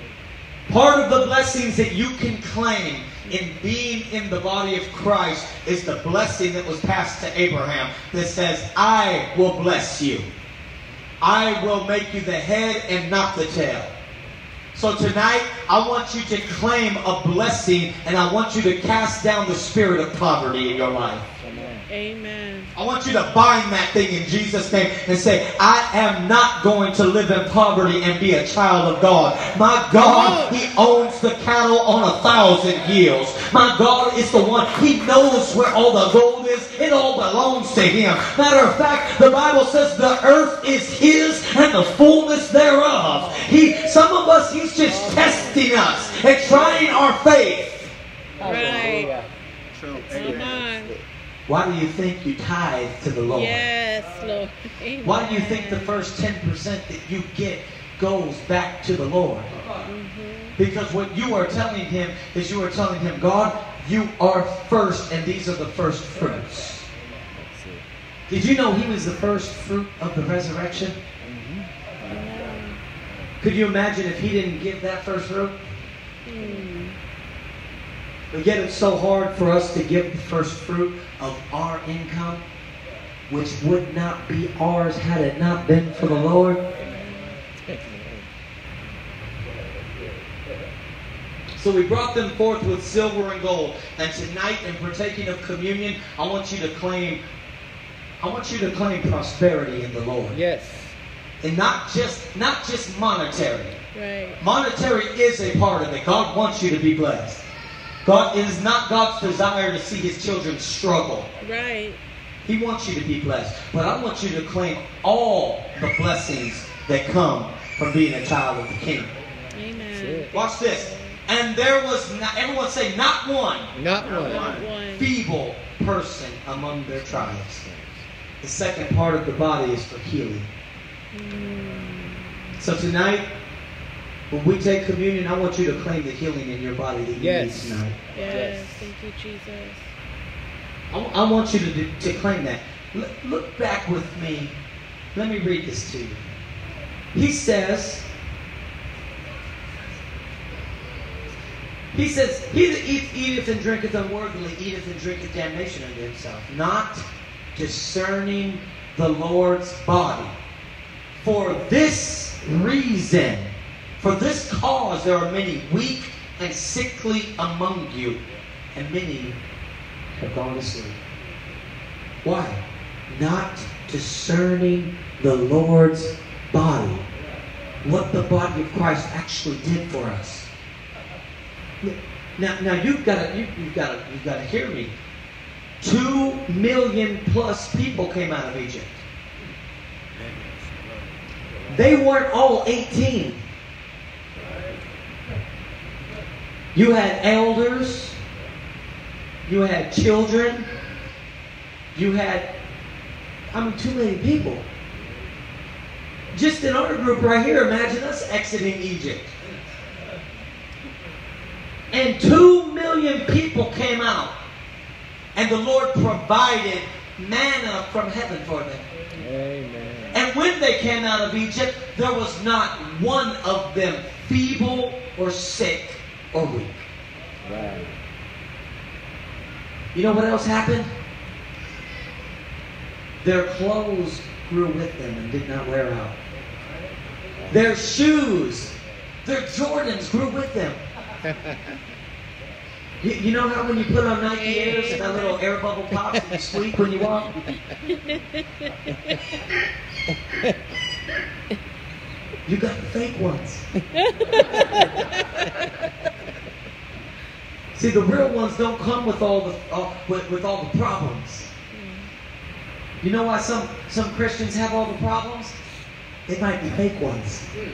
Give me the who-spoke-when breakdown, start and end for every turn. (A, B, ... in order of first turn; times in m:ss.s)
0:00.7-0:10.3 A
0:11.2-0:13.9 A
0:14.7-0:21.2 A
0:21.4-0:21.9 B
0:21.9-0:22.7 C
0:22.7-0:47.9 A
0:30.0-0:30.6 B
0:44.9-0:45.4 B
0:45.3-0:45.7 C
0:48.4-0:49.3 B
0:48.4-0:49.1 C
0:49.9-0:51.0 B
0:50.1-0:50.9 C
0:51.5-0:53.6 A
0:53.3-0:56.0 C
0:55.0-0:59.5 A
0:59.8-1:00.6 C
1:00.6-1:06.9 A
1:07.3-1:07.8 B
1:08.3-1:11.0 A
1:11.2-1:12.3 B
1:12.0-1:12.8 C
1:13.4-1:15.6 A
1:16.2-1:17.0 C
1:16.4-1:16.7 B
1:18.3-1:22.4 A
1:23.3-1:26.6 A
1:26.9-1:27.3 C
1:27.6-1:28.3 B
1:31.6-1:37.2 A
1:38.2-1:40.4 A
1:40.3-1:41.0 B
1:41.4-1:43.8 A
1:43.9-1:44.4 C
1:44.4-1:47.4 A
1:48.0-1:51.3 A
1:51.4-1:52.0 C
1:52.4-1:59.1 A
1:59.5-2:01.2 C
1:59.9-2:00.3 B
2:00.3-2:07.6 A
2:03.7-2:04.5 B
2:04.0-2:05.1 C
2:07.0-2:08.0 B
2:08.4-2:10.5 A
2:11.1-2:12.6 C
2:12.6-2:13.2 A
2:14.3-2:18.0 A
2:17.1-2:18.9 B
2:18.1-2:19.9 C
2:20.9-2:24.5 A
2:25.1-2:26.2 A
2:27.1-2:28.1 A
2:31.9-2:40.4 A
2:41.2-2:48.2 A
2:48.7-2:49.4 A
2:50.1-2:51.0 A
2:52.2-2:57.1 A
2:57.8-3:00.5 A
3:01.8-3:04.9 A
3:05.8-3:09.0 A
3:11.7-3:13.4 A
3:16.7-3:18.2 A
3:19.5-3:20.7 A
3:21.9-3:22.5 A
3:23.5-3:24.7 A
3:26.3-3:29.3 A
3:31.9-3:34.4 A
3:35.3-3:38.9 A
3:39.1-3:40.2 B
3:40.1-3:46.9 A
3:47.4-3:48.0 B
3:49.9-3:50.9 A
3:53.2-3:56.2 A
3:57.4-3:57.8 B
3:57.5-4:00.8 A
4:01.2-4:01.5 B
4:03.0-4:07.3 A
4:04.3-4:05.4 C
4:10.1-4:10.5 B
4:12.4-4:13.7 A
4:14.0-4:14.8 C
4:17.7-4:21.5 A
4:21.7-4:22.1 C
4:23.0-4:25.6 A
4:26.3-4:27.5 A